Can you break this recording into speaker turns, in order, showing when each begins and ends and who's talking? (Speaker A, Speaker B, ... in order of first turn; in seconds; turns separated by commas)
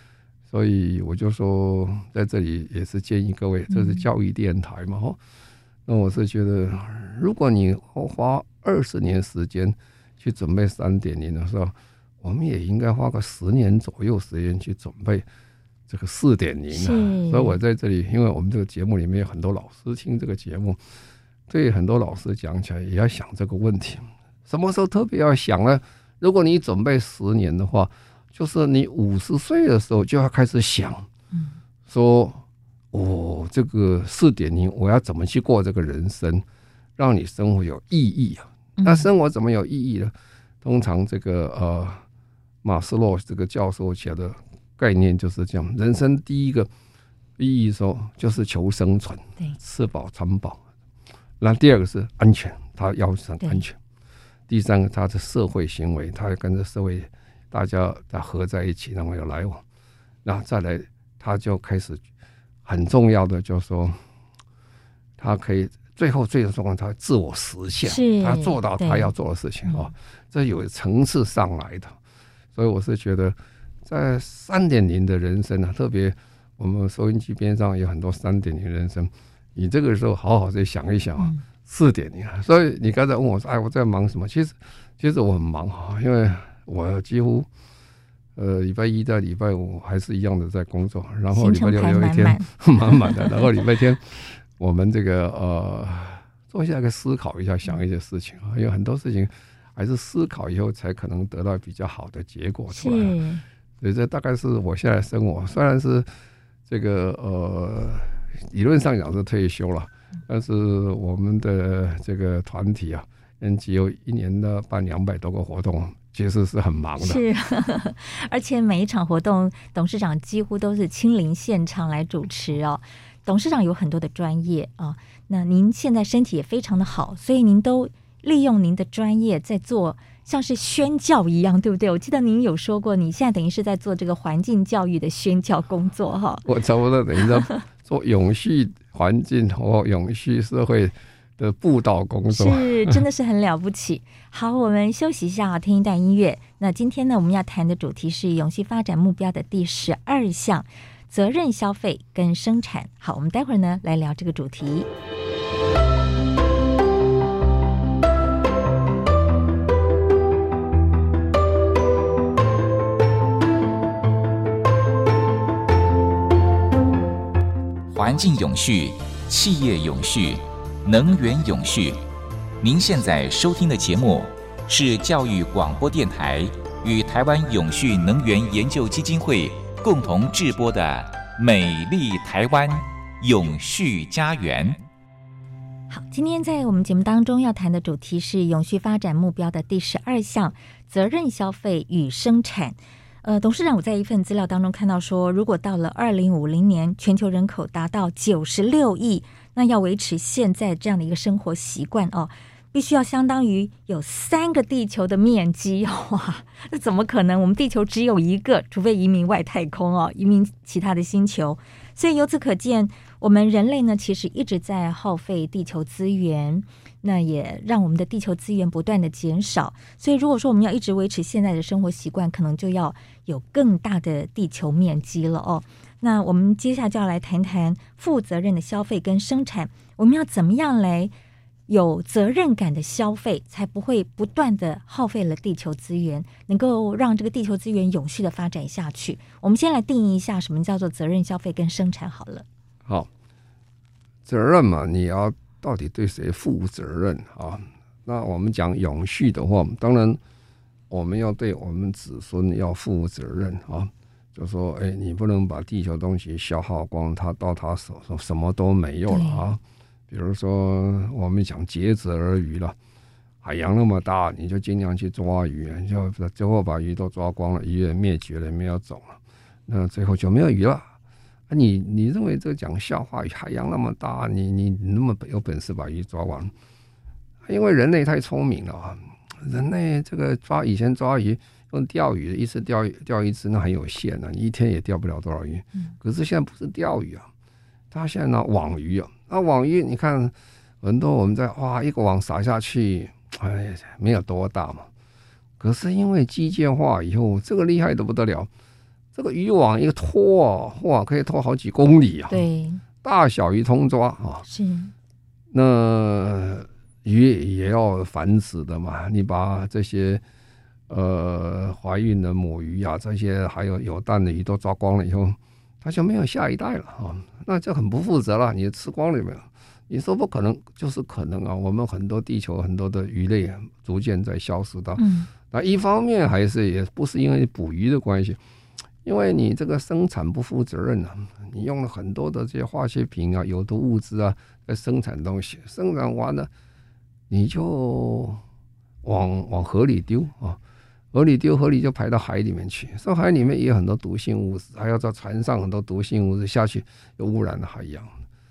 Speaker A: 0.5-5.2, Speaker B: 3.7-4.0, Speaker A: 5.9-15.2, Speaker A: 15.9-20.8, Speaker B: 16.7-17.6, Speaker A: 21.5-31.1, Speaker A: 31.9-36.4, Speaker A: 37.0-42.0, Speaker B: 38.8-39.1, Speaker A: 42.6-46.7, Speaker A: 47.4-50.6, Speaker A: 51.4-53.8, Speaker A: 54.5-59.6, Speaker A: 60.2-62.0, Speaker A: 62.6-64.0, Speaker A: 65.2-72.0, Speaker B: 67.8-69.1, Speaker B: 69.7-69.9, Speaker A: 72.5-87.5, Speaker A: 88.3-103.2, Speaker B: 91.3-93.3, Speaker B: 102.7-103.4, Speaker A: 103.8-106.1, Speaker A: 106.7-117.2, Speaker B: 117.0-136.4, Speaker A: 136.4-143.0, Speaker B: 142.3-154.9, Speaker C: 167.9-172.0, Speaker C: 172.6-184.8, Speaker B: 185.9-231.1, Speaker B: 231.7-242.4, Speaker A: 244.2-250.2, Speaker A: 250.9-262.8, Speaker B: 259.1-259.4, Speaker A: 263.4-270.9, Speaker A: 271.5-276.5, Speaker A: 277.4-287.3, Speaker A: 287.9-294.9, Speaker A: 295.6-298.5, Speaker A: 299.1-302.4, Speaker B: 302.3-302.8, Speaker A: 303.0-304.4, Speaker B: 304.4-304.9, Speaker A: 305.5-310.2, Speaker A: 310.9-328.4, Speaker B: 325.0-325.3, Speaker A: 329.0-336.5, Speaker A: 337.3-338.4, Speaker A: 339.0-340.6, Speaker A: 341.1-348.1